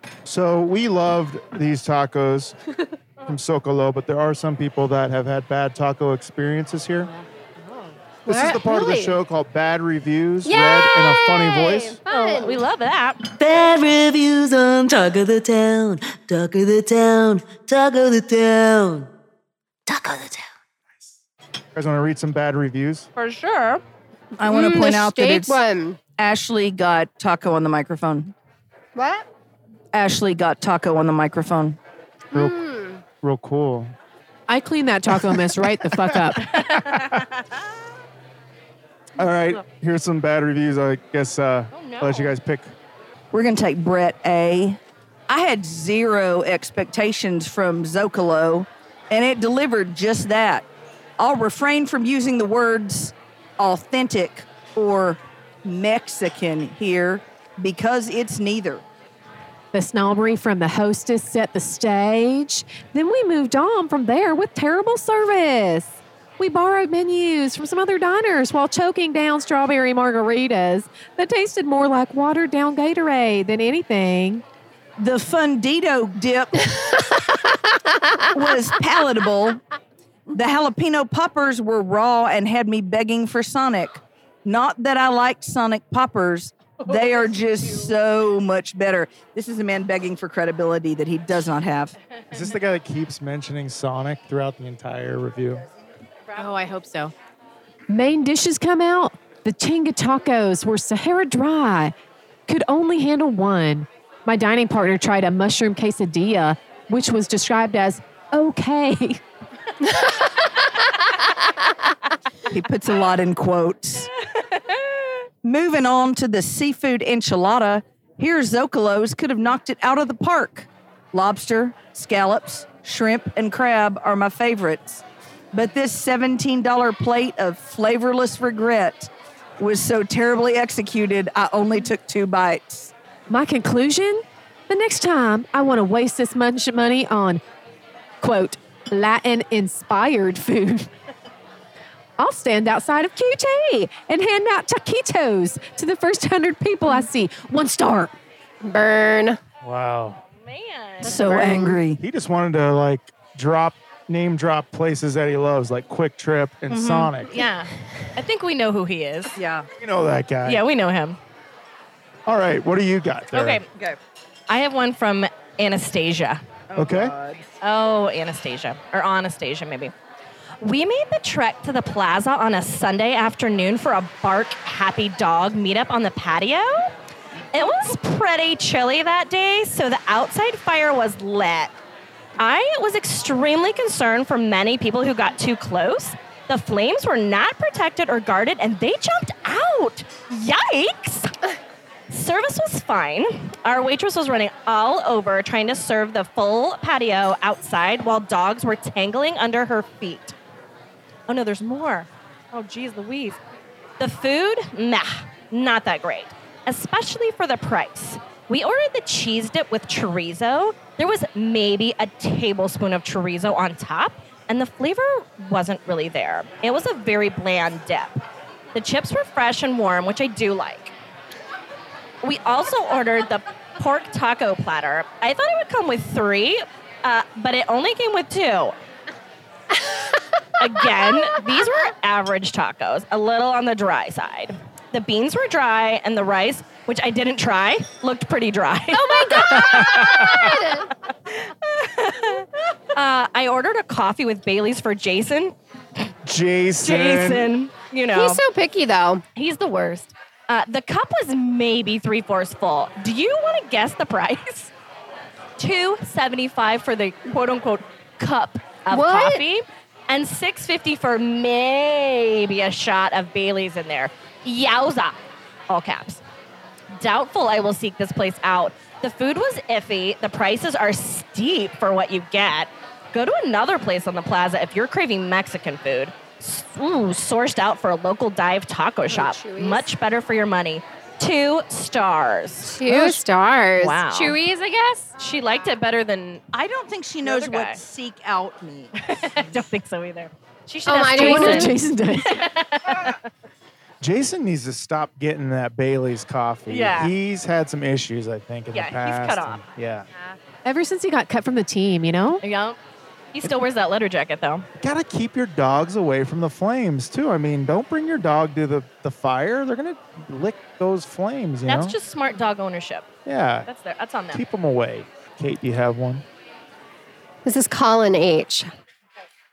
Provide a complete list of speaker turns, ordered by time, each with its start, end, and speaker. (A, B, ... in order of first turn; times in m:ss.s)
0:00.2-0:02.6 A
0:03.2-0:07.1 A
0:07.0-0:07.9 B
0:08.2-0:12.0 A
0:08.3-0:09.2 C
0:10.4-0:12.6 C
0:12.1-0:13.2 D
0:13.4-0:19.1 E
0:19.9-0:20.5 E
0:21.7-0:23.1 A
0:23.2-0:23.8 D
0:24.4-0:25.6 F
0:24.4-0:26.0 C
0:26.2-0:28.3 F
0:29.0-0:29.2 C
0:29.9-0:31.8 F
0:32.3-0:33.0 C
0:33.2-0:33.9 A
0:34.5-0:36.5 B
0:35.1-0:37.2 A
0:36.6-0:37.3 D
0:39.2-0:42.7 A
0:41.7-0:42.3 D
0:43.3-0:50.6 F
0:51.2-0:58.8 F
0:59.7-1:14.4 B
1:15.0-1:17.0 F
1:17.9-1:18.3 C
1:18.3-1:19.6 F
1:20.3-1:31.9 F
1:32.3-1:35.6 A
1:36.3-1:37.1 B
1:37.9-1:41.9 B
1:42.5-1:49.2 B
1:52.5-1:54.1 F
1:54.4-1:54.9 D
1:55.4-2:12.9 F
2:13.3-2:17.4 B
2:18.2-2:20.9 B
2:22.2-2:28.1 B
2:28.6-2:29.4 C
2:29.6-2:30.2 A
2:30.4-2:31.2 D
2:31.0-2:32.0 F
2:31.0-2:31.8 C
2:32.0-2:37.4 A
2:36.7-2:39.4 D
2:39.4-2:39.7 F
2:39.8-2:40.6 A
2:40.4-2:41.2 D
2:42.2-2:43.6 A
2:43.3-2:43.7 D
2:44.5-2:46.4 D
2:46.7-2:47.5 F
2:46.8-2:47.1 A
2:47.6-2:49.9 D
2:50.6-2:56.9 D
2:57.5-3:01.7 D
3:02.4-3:11.3 D
3:12.1-3:20.3 D
3:21.3-3:23.4 D
3:24.0-3:38.2 D
3:38.7-3:40.9 D
3:42.2-3:48.7 D
3:50.6-4:00.6 D
3:58.9-4:00.9 C
3:59.5-4:00.3 A
4:01.3-4:05.5 D
4:06.2-4:07.5 A
4:06.8-4:08.4 D
4:08.1-4:09.2 C
4:09.4-4:14.7 D
4:15.6-4:25.2 D
4:18.9-4:19.4 C
4:25.7-4:26.2 D
4:26.9-4:43.1 D
4:39.1-4:39.9 C
4:42.6-4:45.1 C
4:42.9-4:43.2 B
4:43.8-4:44.4 D
4:45.2-4:46.4 D
4:46.5-4:49.1 F
4:47.2-4:47.8 D
4:49.0-4:53.2 D
4:50.8-4:51.7 C
4:51.1-4:52.4 B
4:54.0-5:00.1 A
4:56.7-4:57.1 D
4:58.7-4:59.6 D
5:00.6-5:02.4 B
5:02.4-5:02.8 D
5:03.3-5:04.7 D
5:04.8-5:11.9 A
5:11.7-5:13.1 D
5:13.2-5:13.7 A
5:13.6-5:14.4 D
5:14.3-5:16.2 A
5:17.4-5:18.7 C